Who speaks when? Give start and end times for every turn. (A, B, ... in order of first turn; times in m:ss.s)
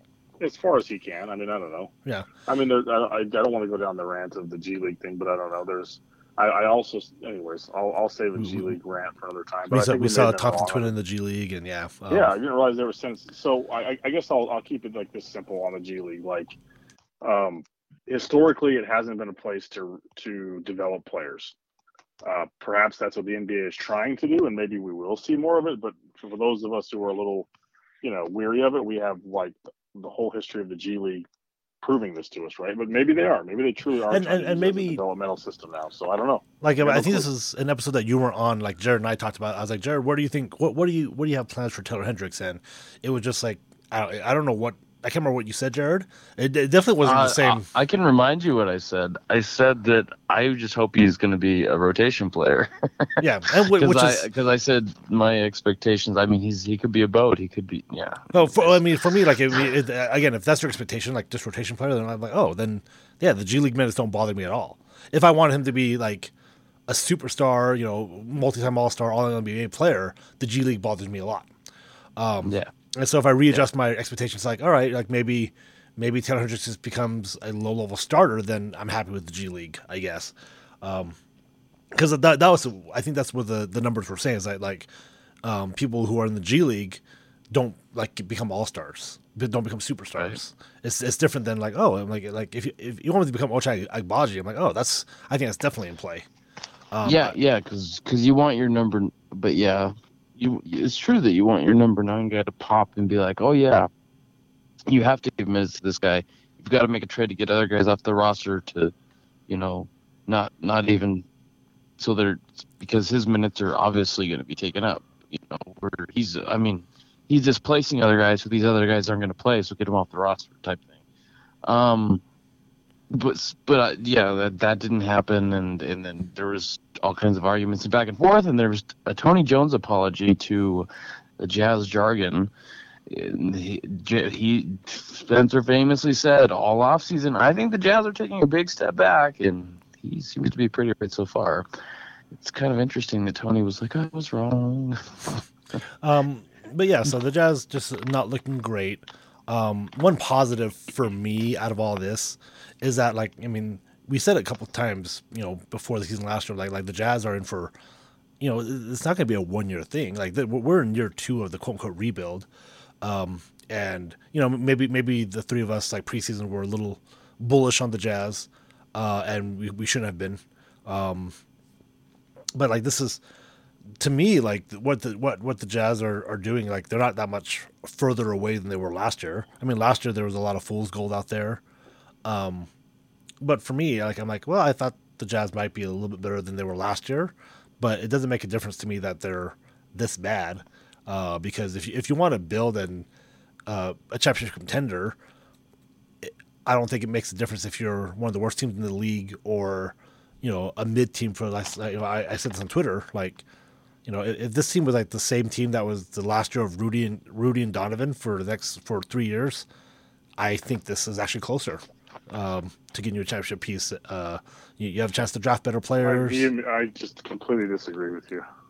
0:00.4-0:01.9 A
0:02.5-0:10.9 A
0:08.4-0:08.8 B
0:09.7-0:12.3 B
0:12.1-0:16.5 A
0:17.2-0:21.5 A
0:22.2-0:27.5 A
0:28.0-0:31.2 A
0:31.8-0:37.2 A
0:34.1-0:35.0 B
0:36.6-0:47.6 B
0:47.0-0:58.9 C
0:53.2-0:54.3 B
0:58.3-1:06.3 B
1:06.9-1:11.5 B
1:12.2-1:21.2 B
1:12.4-1:12.7 C
1:21.9-1:24.9 B
1:25.4-1:36.3 B
1:36.9-1:37.3 B
1:37.0-1:43.9 C
1:44.9-1:48.9 C
1:49.5-1:51.3 C
1:52.0-2:00.9 C
2:01.6-2:02.2 C
2:03.1-2:10.9 C
2:11.4-2:12.5 C
2:13.1-2:21.6 C
2:22.3-2:25.3 C
2:26.0-2:37.7 B
2:38.4-2:42.5 B
2:43.0-2:51.3 B
2:52.5-2:53.2 B
2:54.0-3:01.6 B
3:02.2-3:02.7 B
3:03.4-3:13.1 B
3:13.7-3:15.2 B
3:16.2-3:23.4 B
3:24.0-3:29.7 B
3:30.4-3:36.5 B
3:36.0-3:38.4 A